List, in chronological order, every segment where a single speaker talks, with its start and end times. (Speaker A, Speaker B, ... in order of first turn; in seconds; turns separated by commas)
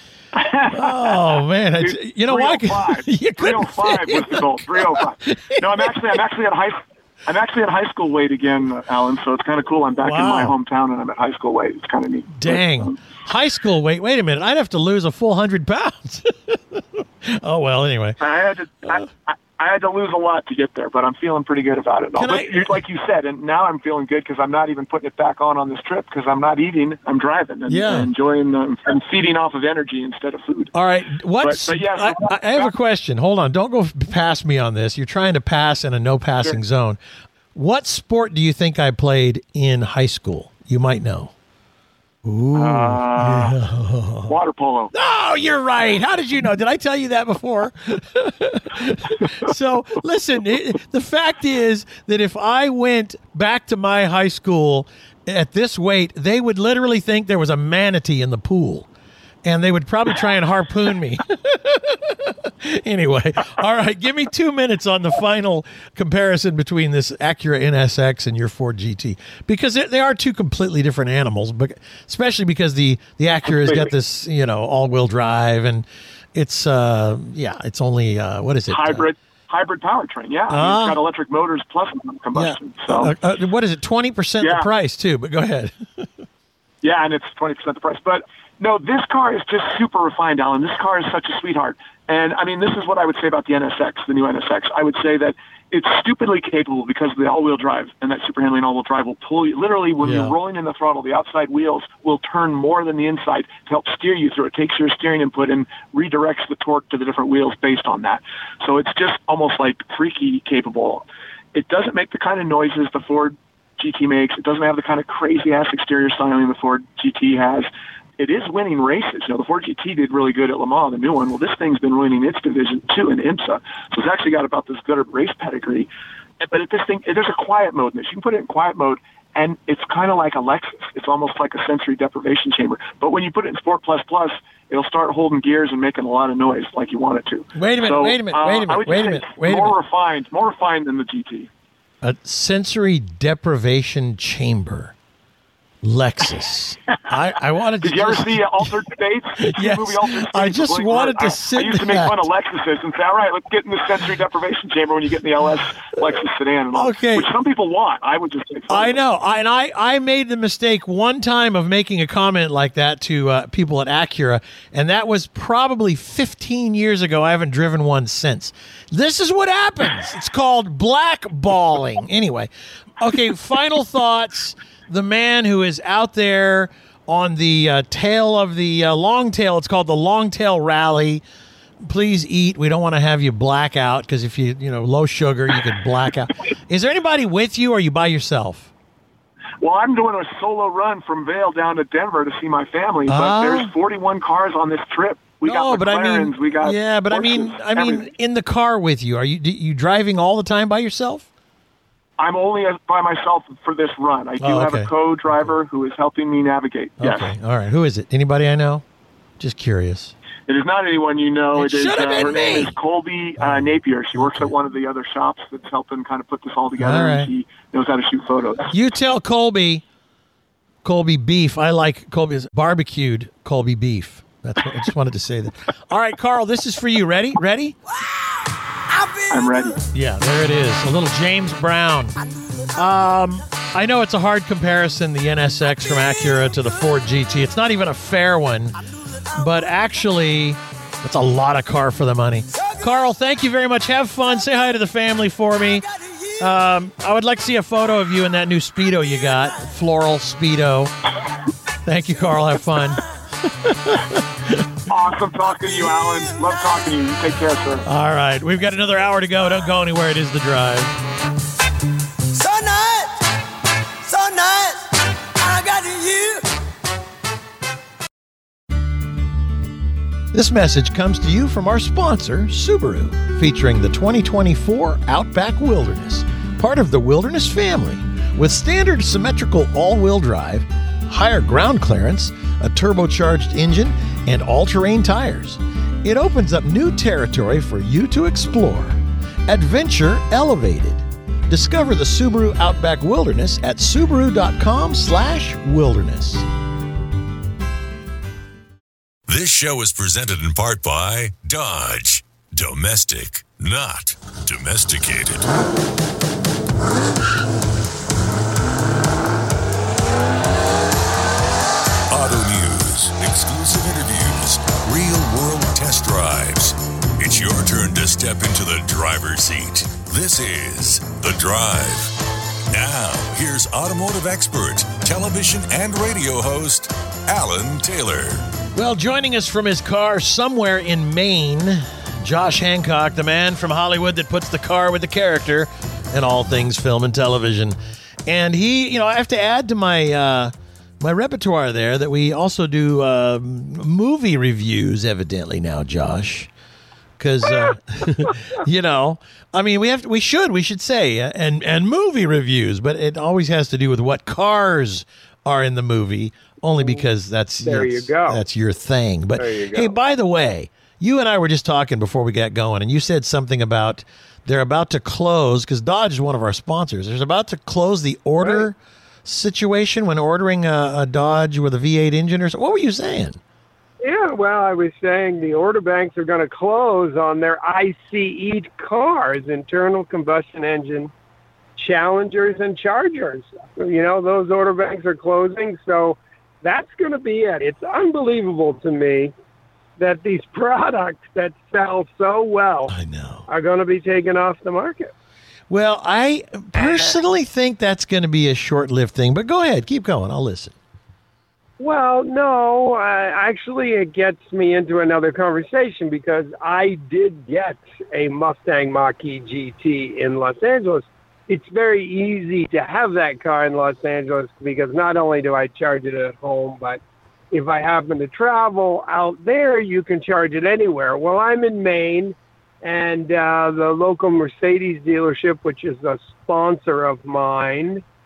Speaker A: 0.3-13.0, Speaker B: 0.8-5.9, Speaker B: 10.0-10.6, Speaker B: 12.3-18.2, Speaker A: 18.2-30.7, Speaker B: 22.2-22.8, Speaker B: 27.7-28.1, Speaker B: 30.7-37.0, Speaker A: 31.4-32.7, Speaker B: 37.5-41.3, Speaker B: 42.2-44.3, Speaker A: 42.5-43.6, Speaker A: 44.3-44.9, Speaker B: 44.9-58.9, Speaker B: 59.4-79.1, Speaker A: 73.5-73.9, Speaker A: 78.7-83.2, Speaker B: 80.5-81.0, Speaker B: 82.3-86.1, Speaker A: 84.4-84.7, Speaker A: 86.8-125.9, Speaker B: 100.0-100.4, Speaker A: 126.4-141.5, Speaker B: 137.6-139.8, Speaker B: 142.0-144.9, Speaker B: 145.8-148.7, Speaker A: 147.8-159.0, Speaker B: 149.5-152.3, Speaker B: 156.7-157.3, Speaker B: 158.7-181.2, Speaker B: 181.8-188.7, Speaker A: 189.6-198.1, Speaker B: 193.1-193.7, Speaker B: 195.4-201.3, Speaker A: 202.2-207.3, Speaker B: 204.4-205.5, Speaker B: 207.0-208.8, Speaker B: 209.4-210.1, Speaker A: 210.5-218.8, Speaker B: 211.6-212.8, Speaker B: 213.4-214.5, Speaker B: 216.8-217.3, Speaker B: 218.7-219.8, Speaker B: 220.8-227.8, Speaker A: 229.3-229.8, Speaker B: 229.9-232.2, Speaker B: 232.8-238.8, Speaker B: 239.3-245.8, Speaker B: 246.4-250.9, Speaker B: 251.8-254.7, Speaker A: 254.9-257.8, Speaker B: 257.8-260.9, Speaker C: 262.4-263.1, Speaker C: 264.1-264.7, Speaker C: 265.4-266.3, Speaker B: 270.3-296.4, Speaker D: 299.3-305.5, Speaker D: 312.1-322.2, Speaker D: 322.7-328.4, Speaker B: 328.8-346.5, Speaker B: 347.2-373.4, Speaker E: 356.8-357.1, Speaker E: 357.6-358.4, Speaker E: 359.4-359.9, Speaker E: 368.4-368.7, Speaker E: 374.0-381.1, Speaker E: 381.8-389.3, Speaker E: 390.0-392.9, Speaker B: 392.9-393.5, Speaker E: 393.5-395.1, Speaker B: 395.7-400.8, Speaker E: 396.8-397.1, Speaker E: 401.8-417.0, Speaker E: 417.5-428.0